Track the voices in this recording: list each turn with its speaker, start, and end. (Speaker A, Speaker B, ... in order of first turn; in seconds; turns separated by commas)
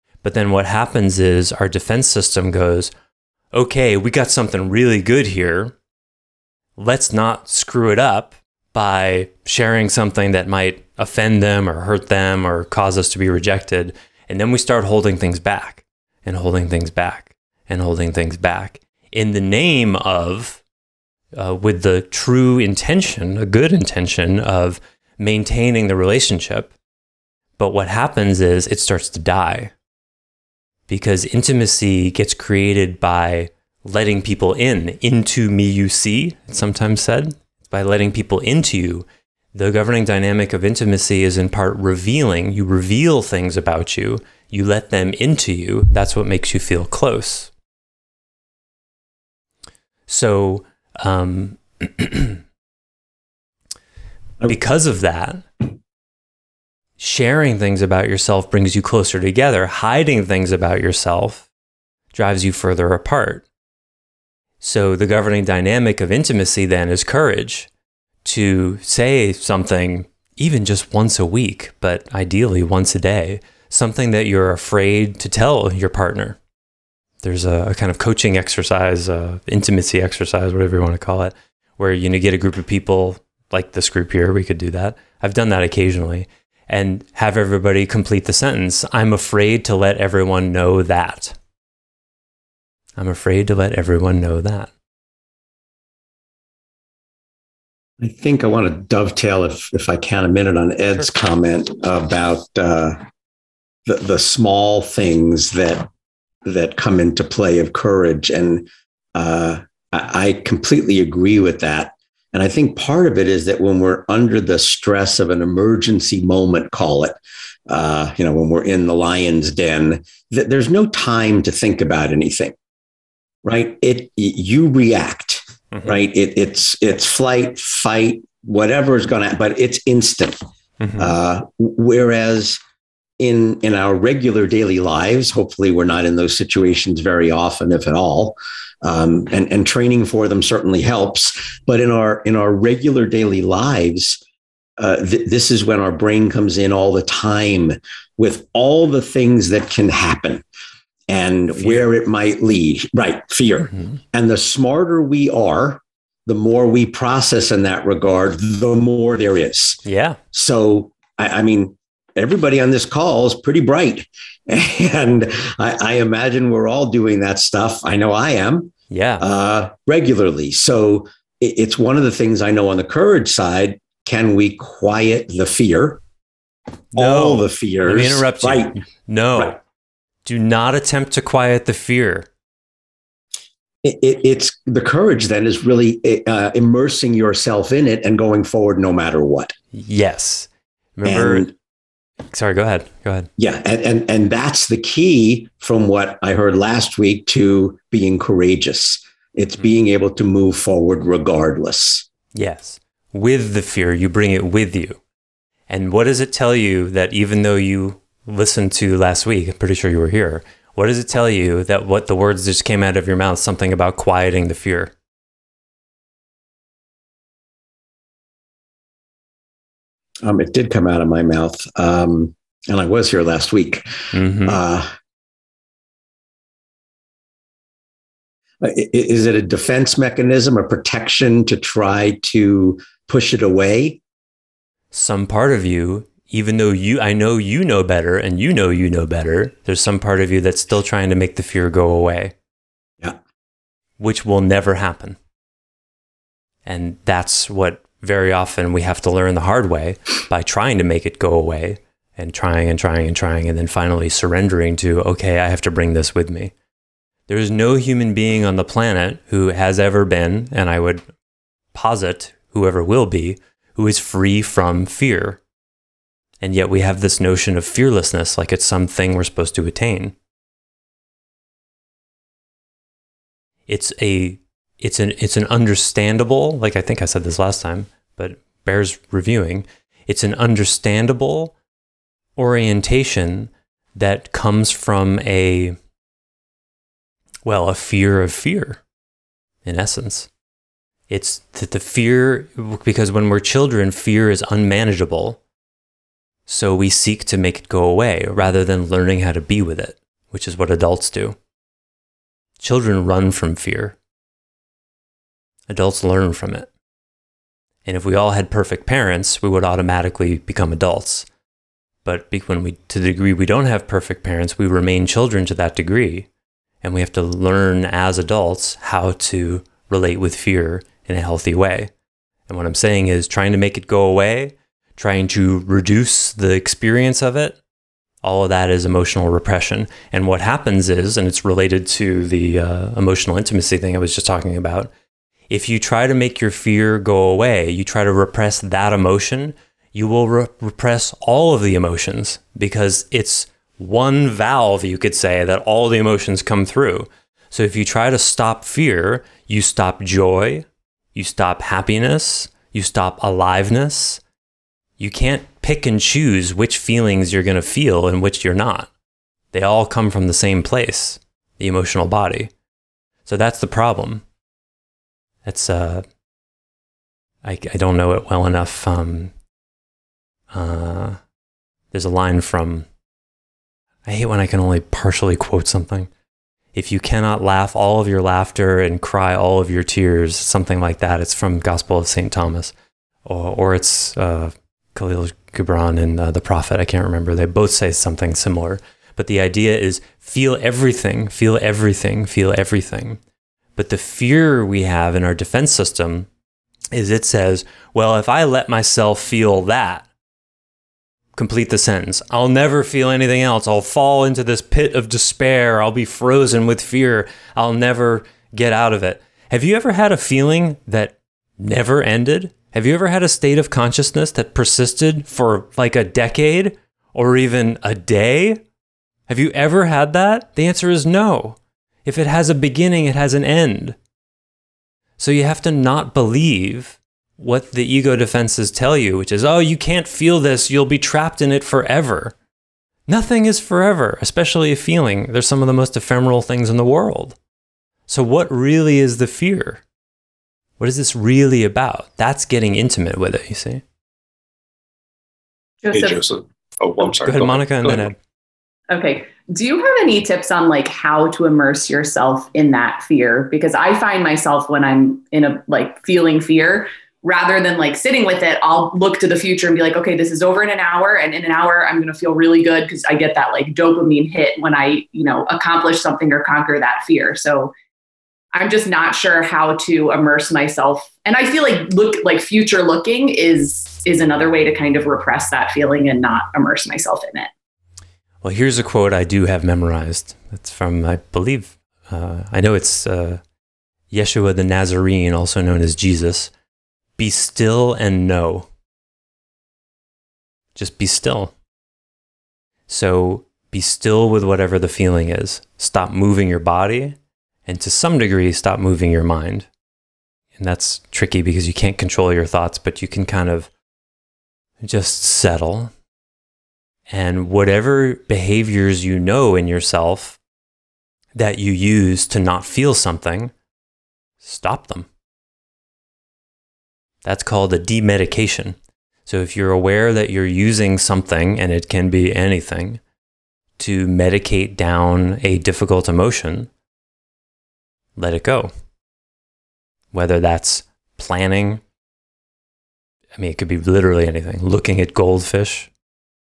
Speaker A: 0.2-2.9, Speaker A: 3.5-5.8, Speaker A: 6.8-20.6, Speaker A: 21.4-26.7, Speaker A: 27.6-29.7, Speaker A: 30.9-47.5, Speaker A: 50.1-52.4, Speaker A: 54.5-55.4, Speaker A: 57.0-61.5, Speaker A: 62.1-63.5, Speaker A: 64.6-67.7, Speaker A: 68.2-76.4, Speaker A: 77.2-91.4, Speaker A: 93.0-94.7, Speaker B: 98.0-103.0, Speaker B: 103.9-105.9, Speaker B: 106.5-122.5, Speaker B: 123.4-130.4, Speaker A: 130.8-131.2, Speaker B: 131.0-132.6, Speaker B: 133.2-144.2, Speaker B: 144.8-150.4, Speaker B: 151.1-159.8, Speaker A: 151.6-151.8, Speaker A: 153.7-154.0, Speaker A: 159.8-160.2, Speaker B: 160.3-176.0, Speaker A: 168.9-169.2, Speaker A: 176.9-179.6, Speaker B: 177.0-178.8, Speaker A: 180.3-182.3, Speaker B: 183.8-189.5, Speaker A: 189.7-191.5, Speaker B: 191.1-191.5, Speaker A: 192.3-193.3, Speaker B: 193.4-202.1, Speaker A: 202.3-205.0, Speaker A: 205.7-214.9, Speaker B: 220.2-224.9, Speaker A: 224.1-224.6, Speaker B: 228.6-234.0, Speaker A: 234.9-242.3, Speaker A: 244.0-245.2, Speaker A: 246.7-256.5, Speaker A: 257.3-261.0, Speaker A: 261.7-265.4, Speaker A: 266.4-270.1, Speaker A: 273.7-281.5, Speaker A: 282.4-285.8, Speaker A: 287.4-288.8, Speaker A: 289.6-290.3, Speaker A: 291.1-295.4, Speaker A: 296.5-301.4, Speaker A: 302.6-304.0, Speaker A: 305.7-306.7, Speaker A: 307.9-311.3, Speaker A: 312.0-316.3, Speaker A: 316.8-321.9, Speaker A: 322.5-327.6, Speaker A: 328.2-334.9, Speaker A: 335.5-354.2, Speaker A: 355.0-358.9, Speaker A: 359.5-362.5, Speaker A: 363.3-364.2, Speaker A: 365.4-366.0, Speaker A: 367.4-369.3, Speaker A: 370.5-371.2, Speaker A: 371.9-372.9, Speaker A: 374.1-376.1, Speaker A: 376.7-382.7, Speaker A: 383.3-393.2, Speaker A: 393.8-396.3, Speaker A: 396.9-400.1, Speaker A: 401.4-418.6, Speaker A: 419.3-424.0, Speaker A: 425.2-432.4, Speaker A: 433.1-437.4, Speaker A: 438.1-439.8, Speaker A: 440.8-443.8, Speaker C: 445.8-446.2, Speaker D: 445.9-448.1, Speaker A: 447.1-448.2, Speaker C: 448.9-467.7, Speaker C: 468.6-477.5, Speaker A: 478.4-483.4, Speaker A: 484.1-486.5, Speaker A: 487.2-488.7, Speaker A: 490.8-491.5, Speaker A: 492.9-499.7, Speaker A: 500.6-503.7, Speaker A: 504.8-505.9, Speaker A: 507.1-510.4, Speaker A: 511.4-513.5, Speaker A: 514.4-515.1, Speaker A: 517.2-523.0, Speaker A: 523.8-526.7, Speaker A: 528.2-528.7, Speaker A: 530.1-531.8, Speaker A: 533.4-535.9